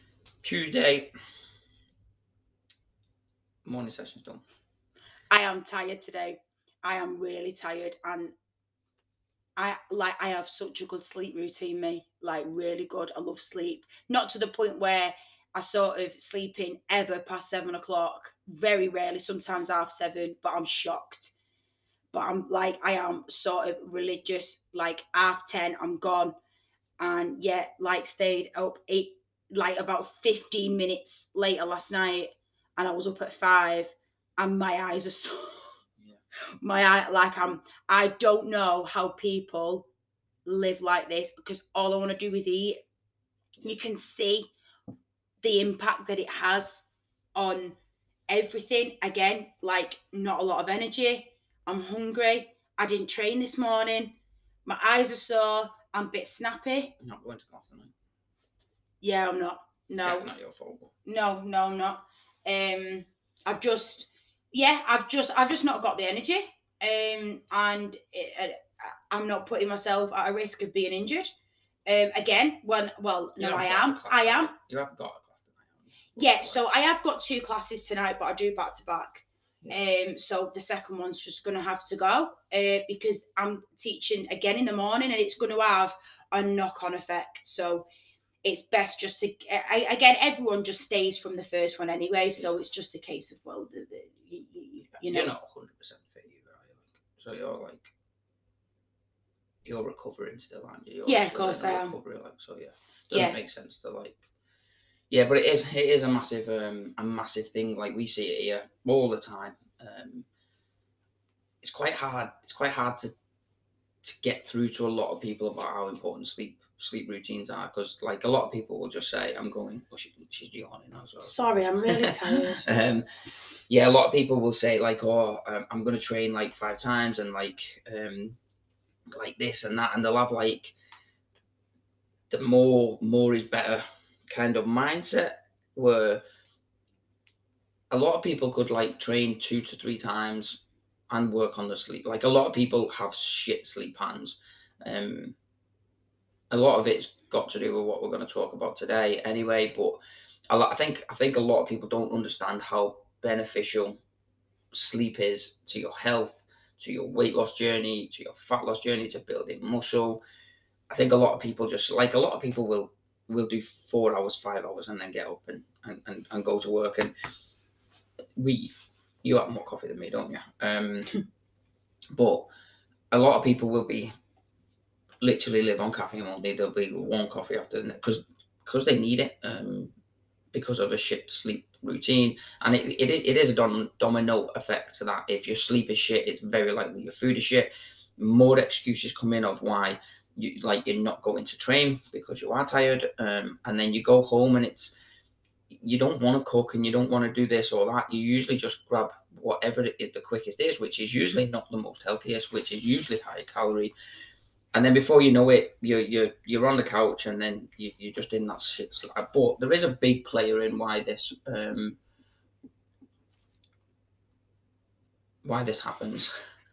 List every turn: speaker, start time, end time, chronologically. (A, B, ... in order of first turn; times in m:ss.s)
0:00.4-0:01.1 A
0:03.6-0:04.4 A
0:05.3-0:08.3 B
0:09.6-0:21.3 B
0:22.1-0:26.3 B
0:27.0-0:35.7 B
0:36.6-0:39.9 B
0:40.4-0:42.8 B
0:43.6-0:44.5 B
0:45.4-0:46.8 B
0:47.3-0:47.8 B
0:48.3-0:56.9 B
0:57.0-0:57.9 A
0:59.0-1:00.3 B
1:00.0-1:00.9 A
1:01.0-1:11.3 B
1:11.8-1:14.5 B
1:13.4-1:16.6 A
1:16.2-1:27.8 B
1:28.4-1:35.3 B
1:35.1-1:37.9 A
1:39.6-1:44.3 A
1:41.0-1:41.9 B
1:45.1-1:50.2 A
1:51.6-1:53.1 A
1:54.0-2:02.1 A
2:01.2-2:02.6 B
2:02.6-2:03.0 A
2:03.7-2:08.4 A
2:09.1-2:10.7 A
2:12.3-2:16.2 A
2:17.9-2:25.3 A
2:26.5-2:34.0 A
2:34.7-2:40.2 A
2:40.9-2:47.1 A
2:48.4-2:48.7 A
2:49.2-2:51.2 A
2:52.1-2:52.5 A
2:53.1-2:54.1 A
2:55.2-2:59.9 A
3:00.5-3:14.9 A
3:15.7-3:23.9 A
3:24.7-3:32.0 A
3:35.4-3:36.3 A